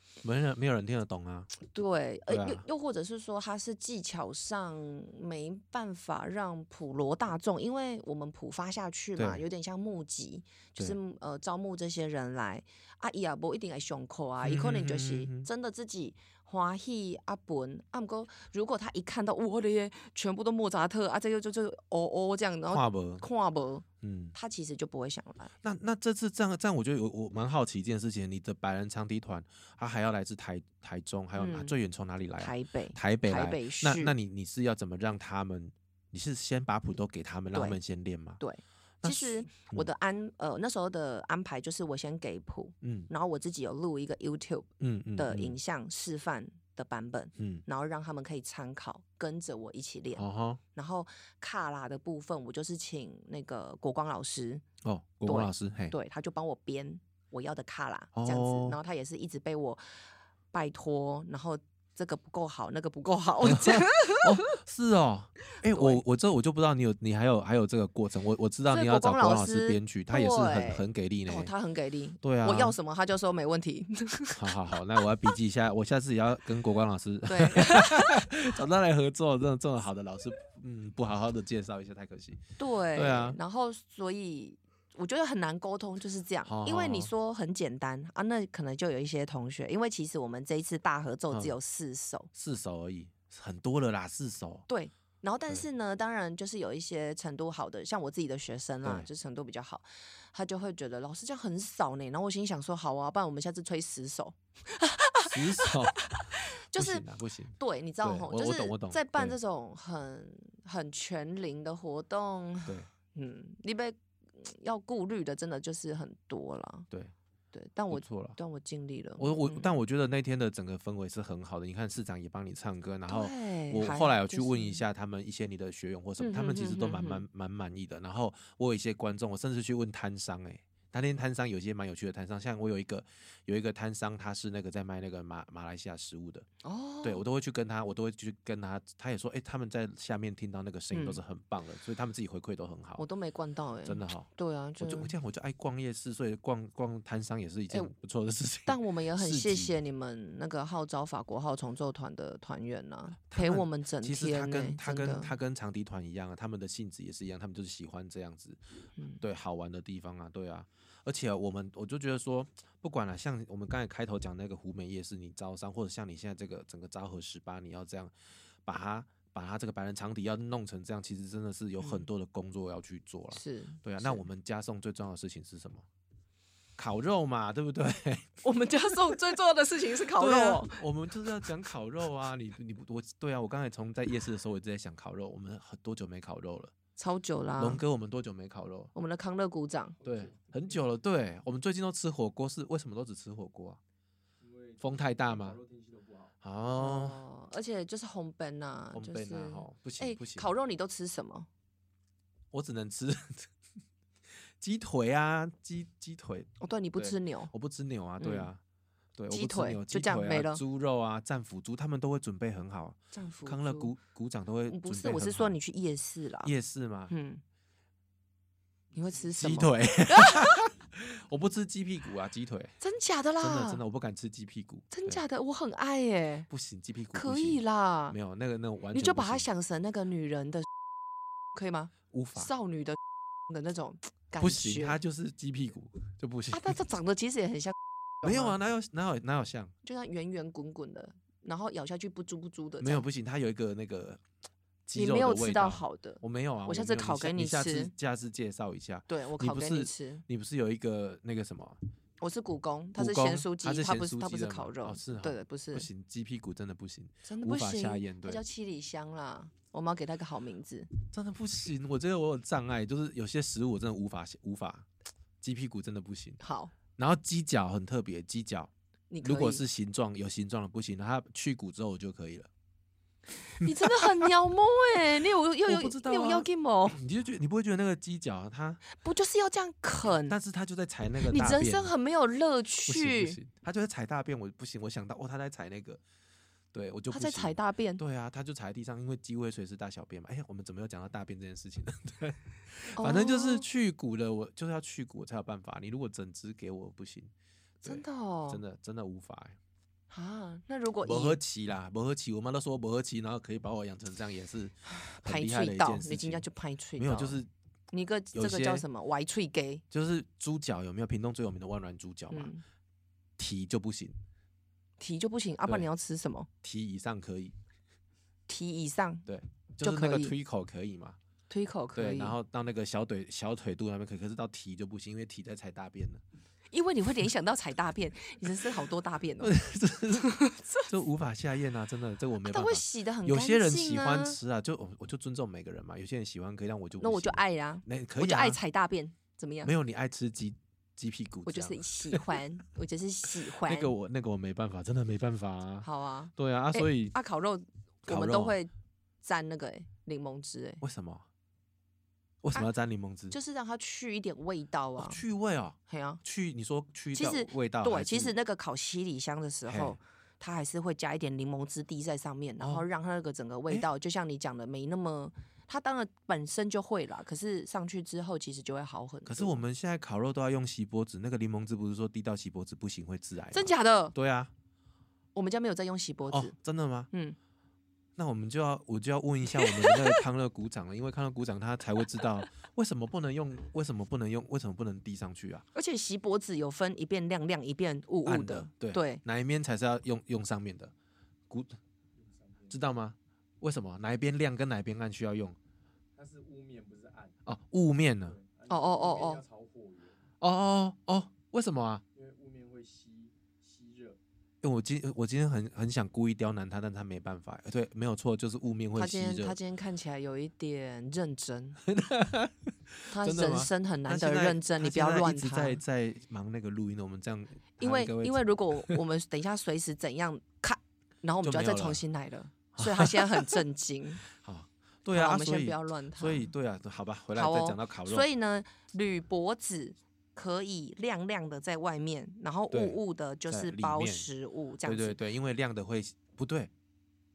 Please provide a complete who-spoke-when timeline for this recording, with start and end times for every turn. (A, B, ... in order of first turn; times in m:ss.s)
0:00.2-0:01.5 A
0:01.6-0:25.5 B
0:02.3-0:02.6 A
0:09.2-0:09.4 A
0:14.4-0:15.5 A
0:22.7-0:23.2 A
0:24.0-0:24.4 A
0:25.6-0:38.4 A
0:31.4-0:31.7 B
0:32.4-0:34.1 B
0:38.4-0:54.6 B
0:39.0-0:39.9 A
0:42.8-0:43.1 A
0:44.8-0:45.6 A
0:47.4-0:47.6 A
0:50.2-0:50.6 A
0:54.8-0:56.0 A
0:55.2-0:59.9 B
0:58.1-0:58.8 A
1:00.5-1:04.6 B
1:03.4-1:11.5 A
1:05.6-1:06.0 B
1:08.7-1:14.4 B
1:12.2-1:12.8 A
1:14.4-1:22.4 A
1:17.3-1:18.3 B
1:22.6-1:32.3 B
1:22.9-1:23.4 A
1:26.4-1:27.1 A
1:32.3-1:34.6 A
1:34.7-1:47.0 B
1:45.3-1:46.1 A
1:46.8-1:49.4 A
1:47.6-1:56.9 B
1:57.5-1:59.7 B
1:57.9-1:58.4 A
1:59.2-2:16.5 A
2:03.1-2:04.8 B
2:06.2-2:07.2 B
2:16.6-2:17.2 B
2:17.0-2:23.0 A
2:20.9-2:21.2 B
2:23.0-2:25.1 B
2:23.8-2:29.8 A
2:28.7-2:35.3 B
2:33.3-2:38.6 A
2:39.2-2:48.1 A
2:48.6-2:55.8 A
2:51.8-2:52.1 B
2:53.3-2:54.2 B
2:56.8-2:58.4 A
2:58.4-3:00.8 B
3:00.2-3:06.7 A
3:07.0-3:07.8 B
3:07.6-3:08.9 A
3:09.0-3:10.0 B
3:10.0-3:10.8 C
3:10.0-3:13.8 A
3:14.4-3:16.4 C
3:14.8-3:15.6 A
3:16.4-3:17.2 A
3:16.8-3:21.5 B
3:18.9-3:20.5 A
3:22.5-3:23.5 A
3:24.6-3:28.6 A
3:26.6-3:27.5 B
3:28.2-3:28.5 B
3:29.2-3:35.6 A
3:29.3-3:30.6 B
3:33.1-3:33.9 B
3:34.7-3:36.5 B
3:36.4-3:37.1 A
3:37.1-3:37.4 B
3:38.9-3:39.3 C
3:39.0-3:40.7 B
3:39.4-3:42.8 A
3:42.8-3:43.8 B
3:43.4-3:45.2 A
3:44.9-3:46.5 B
3:46.5-3:49.5 A
3:47.1-3:48.2 B
3:48.9-3:50.7 B
3:51.5-3:55.0 B
3:52.1-3:52.5 A
3:54.4-3:56.8 A
3:56.5-3:58.6 B
3:58.2-3:59.7 A
3:59.8-4:03.0 B
4:02.8-4:04.2 A
4:04.9-4:11.8 A
4:04.9-4:07.9 B
4:09.1-4:10.2 B
4:12.2-4:15.9 B
4:13.0-4:18.4 A
4:17.2-4:20.9 B
4:21.1-4:24.9 A
4:25.4-4:26.4 A
4:26.4-4:26.7 B
4:27.0-4:28.7 A
4:29.1-4:29.6 B
4:29.2-4:32.5 A
4:33.4-4:37.0 B
4:33.6-4:34.3 A
4:35.6-4:38.8 A
4:39.0-4:40.4 B
4:40.3-4:41.9 A
4:41.3-4:43.4 B
4:42.9-4:46.0 A
4:46.7-4:57.3 A
4:47.1-4:48.0 B
4:52.9-4:53.6 B
4:57.8-4:59.6 A
4:57.8-4:58.6 B
5:00.1-5:01.4 B
5:01.0-5:06.4 A
5:04.9-5:07.4 B
5:07.0-5:07.5 A
5:07.9-5:09.8 B
5:08.3-5:08.9 A
5:09.9-5:12.5 A
5:12.3-5:12.6 B
5:13.4-5:14.2 A
5:15.0-5:16.5 B
5:16.6-5:17.6 A
5:18.5-5:19.3 B
5:19.3-5:21.2 A
5:19.8-5:20.3 B
5:21.5-5:22.4 B
5:22.0-5:26.2 A
5:26.7-5:29.6 B
5:29.4-5:38.6 A
5:30.2-5:30.9 B
5:32.4-5:34.4 B
5:37.0-5:39.7 B
5:39.6-5:42.4 A
5:41.5-5:43.9 B
5:43.6-5:47.2 A
5:45.8-5:48.7 B
5:48.1-5:48.6 A
5:49.2-5:50.8 B
5:50.8-5:51.3 A
5:52.4-5:53.4 A
5:53.3-5:55.2 B
5:55.0-5:58.4 A
5:55.9-5:56.2 B
5:57.1-6:09.6 B
5:59.7-6:00.0 A
6:02.6-6:02.9 A
6:09.3-6:14.5 A
6:13.5-6:14.2 B
6:15.4-6:16.5 B
6:16.3-6:17.1 A
6:17.1-6:17.4 B
6:18.2-6:25.6 A
6:19.5-6:20.2 B
6:25.7-6:29.2 B
6:28.2-6:30.9 A
6:31.5-6:31.8 A
6:32.2-6:32.8 C
6:32.7-6:35.6 A
6:36.2-6:37.4 C
6:37.5-6:38.4 A
6:38.2-6:40.3 C
6:38.7-6:39.4 B
6:40.4-6:42.0 A
6:42.2-6:44.2 C
6:44.6-6:49.6 A
6:49.0-6:51.8 B
6:51.8-6:59.0 A
6:53.1-6:55.8 B
6:57.8-7:04.2 B
7:01.4-7:02.0 A
7:02.8-7:03.6 A
7:04.3-7:08.3 A
7:05.1-7:06.5 B
7:07.4-7:15.2 B
7:12.7-7:14.3 A
7:14.8-7:16.7 A